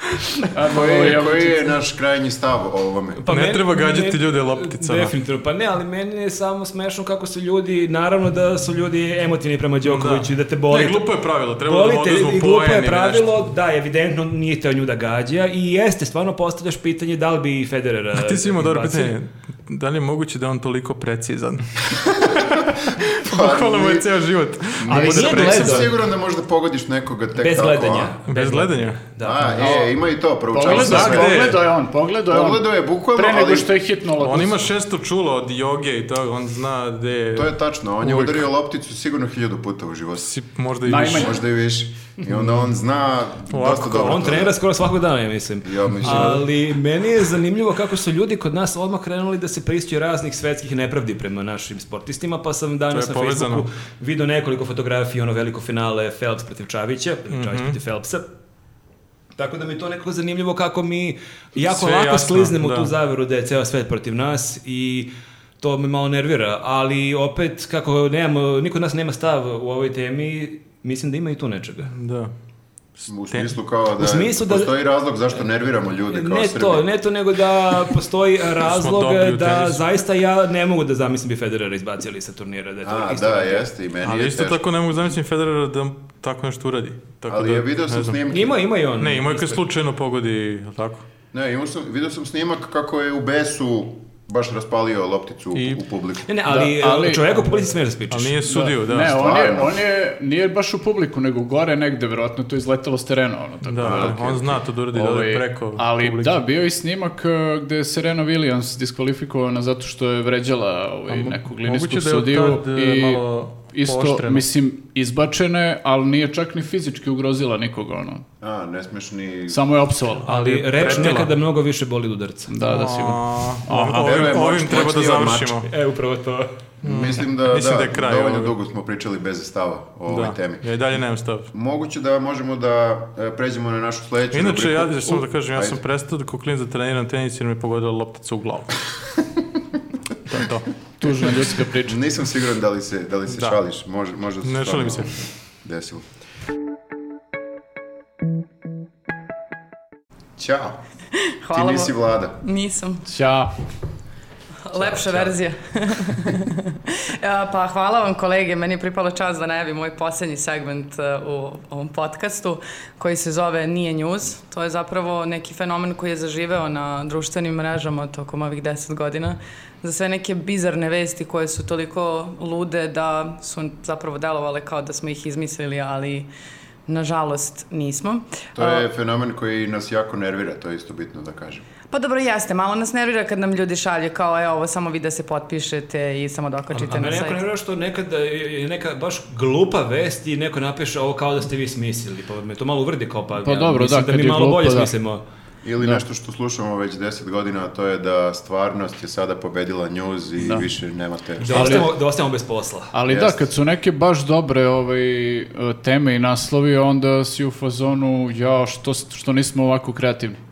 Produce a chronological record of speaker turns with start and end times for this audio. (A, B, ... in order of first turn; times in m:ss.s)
0:00.5-0:01.6 A
0:00.7-0:03.2 B
0:03.2-0:11.1 C
0:03.3-0:05.1 D
0:09.8-0:13.3 D
0:11.6-0:19.2 C
0:18.1-0:25.9 D
0:23.2-0:24.1 B
0:24.7-0:28.1 B
0:24.9-0:25.9 C
0:27.4-0:29.8 C
0:28.3-0:29.0 D
0:29.2-0:31.6 B
0:29.6-0:29.9 A
0:30.5-0:34.6 A
0:30.6-0:31.6 D
0:32.3-0:33.7 B
0:34.2-0:38.5 D
0:37.3-0:40.3 B
0:40.2-0:41.3 D
0:40.8-0:41.4 A
0:41.0-0:44.6 B
0:42.3-0:42.7 D
0:43.5-0:44.2 D
0:43.9-0:58.3 C
0:45.6-0:46.5 B
0:46.0-0:46.3 D
0:52.9-0:53.6 D
0:57.3-0:57.8 D
0:59.4-1:11.9 C
1:01.6-1:02.9 D
1:11.9-1:12.3 D
1:13.0-1:13.5 D
1:13.1-1:16.8 B
1:14.0-1:14.7 C
1:16.1-1:23.7 C
1:18.6-1:19.8 D
1:22.8-1:24.6 B
1:24.0-1:28.2 D
1:27.3-1:28.5 B
1:28.3-1:29.6 C
1:29.0-1:31.0 D
1:31.3-1:36.3 B
1:35.5-1:35.8 D
1:36.3-1:38.4 C
1:36.5-1:37.7 A
1:38.1-1:39.3 D
1:38.4-1:58.2 A
1:39.0-1:39.8 B
1:43.6-1:46.4 D
1:43.8-1:44.4 B
1:51.1-1:54.4 D
1:58.4-1:59.6 B
1:59.5-2:01.2 A
2:00.2-2:02.5 C
2:00.3-2:01.3 D
2:02.5-2:04.4 A
2:02.6-2:05.7 D
2:03.8-2:05.6 B
2:05.7-2:06.5 C
2:06.8-2:08.5 D
2:06.8-2:10.6 B
2:10.1-2:11.5 D
2:11.5-2:15.8 B
2:14.3-2:18.8 D
2:20.3-2:20.7 D
2:21.0-2:22.0 A
2:21.8-2:26.0 B
2:24.4-2:25.1 D
2:30.4-2:30.8 B
2:31.4-2:33.0 E
2:31.5-2:32.4 B
2:33.1-2:33.5 A
2:34.6-2:56.3 E
2:34.8-2:35.3 C
2:56.9-2:58.8 E
2:58.6-3:01.6 B
3:01.9-3:07.4 E
3:06.7-3:15.2 C
3:13.4-3:14.9 A
3:15.6-3:21.9 B
3:21.4-3:22.9 C
3:21.5-3:21.9 A
3:22.9-3:30.4 A
3:23.0-3:23.5 B